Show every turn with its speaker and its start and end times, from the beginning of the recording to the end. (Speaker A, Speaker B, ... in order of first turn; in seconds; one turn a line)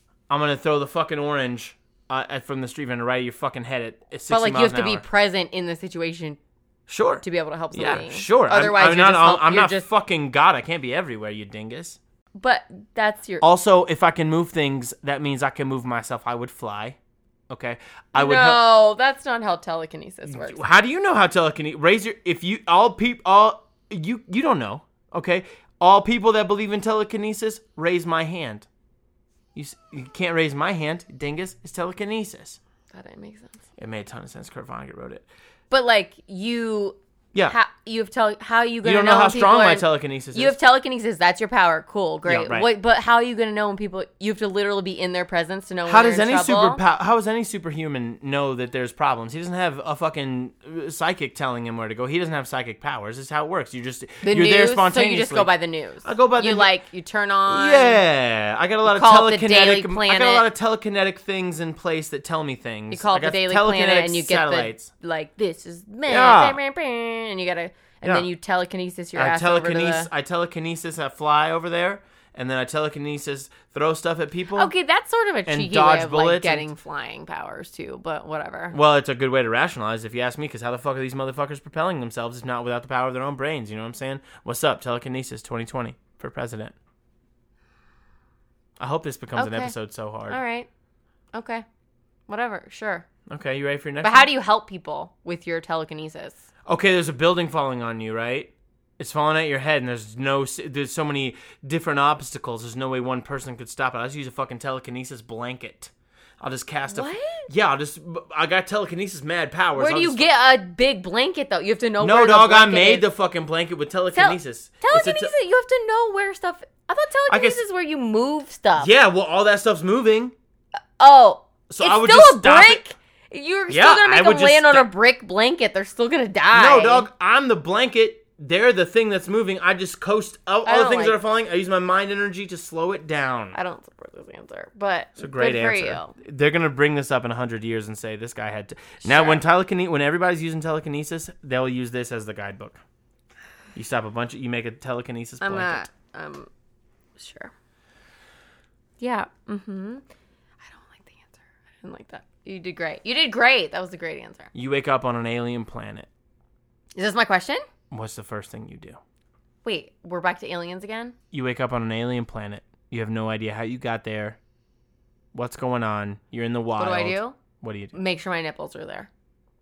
Speaker A: 0.3-5.0
Speaker B: 4.3-6.4
Speaker A: 6.9-12.0
Speaker B: 7.2-9.9
Speaker B: 12.4-13.4
Speaker A: 13.4-17.0
Speaker A: 17.5-18.6
Speaker B: 18.1-20.6
Speaker A: 20.3-28.7
Speaker A: 29.6-32.6
Speaker B: 32.9-33.6
Speaker A: 33.8-35.3
Speaker B: 35.7-46.8
Speaker A: 38.8-40.6
Speaker A: 42.2-42.7
Speaker A: 45.9-55.5
Speaker B: 54.2-58.0
Speaker A: 56.0-56.8
Speaker A: 57.5-64.9
Speaker B: 58.9-60.5
Speaker B: 62.9-70.1
Speaker A: 66.1-66.6
Speaker A: 69.2-74.7
Speaker B: 74.5-78.8
Speaker A: 75.5-76.7
Speaker A: 78.7-86.8
Speaker A: 88.8-90.4
Speaker B: 89.3-89.8
Speaker B: 90.3-90.7
Speaker B: 91.3-91.7
Speaker B: 92.3-93.1
Speaker A: 93.3-94.3
Speaker B: 94.0-96.4
Speaker A: 96.7-110.3
Speaker B: 106.9-107.5
Speaker B: 109.8-113.1
Speaker A: 112.0-115.3
Speaker B: 114.1-118.9
Speaker A: 117.3-117.6
Speaker A: 118.8-120.3
Speaker B: 121.0-127.1
Speaker A: 121.7-122.8
Speaker A: 123.7-124.9
Speaker A: 126.5-133.6
Speaker B: 130.7-131.2
Speaker B: 133.5-136.2
Speaker A: 135.2-142.8
Speaker B: 139.0-139.4
Speaker A: 143.8-145.9
Speaker B: 145.4-146.5
Speaker B: 147.2-147.5
Speaker B: 149.0-150.0
Speaker B: 150.6-154.5
Speaker A: 154.5-156.1
Speaker B: 157.0-157.6
Speaker A: 157.9-159.0
Speaker B: 159.6-161.2
Speaker A: 161.3-164.4
Speaker A: 165.3-167.9
Speaker B: 166.8-167.4
Speaker B: 167.9-169.1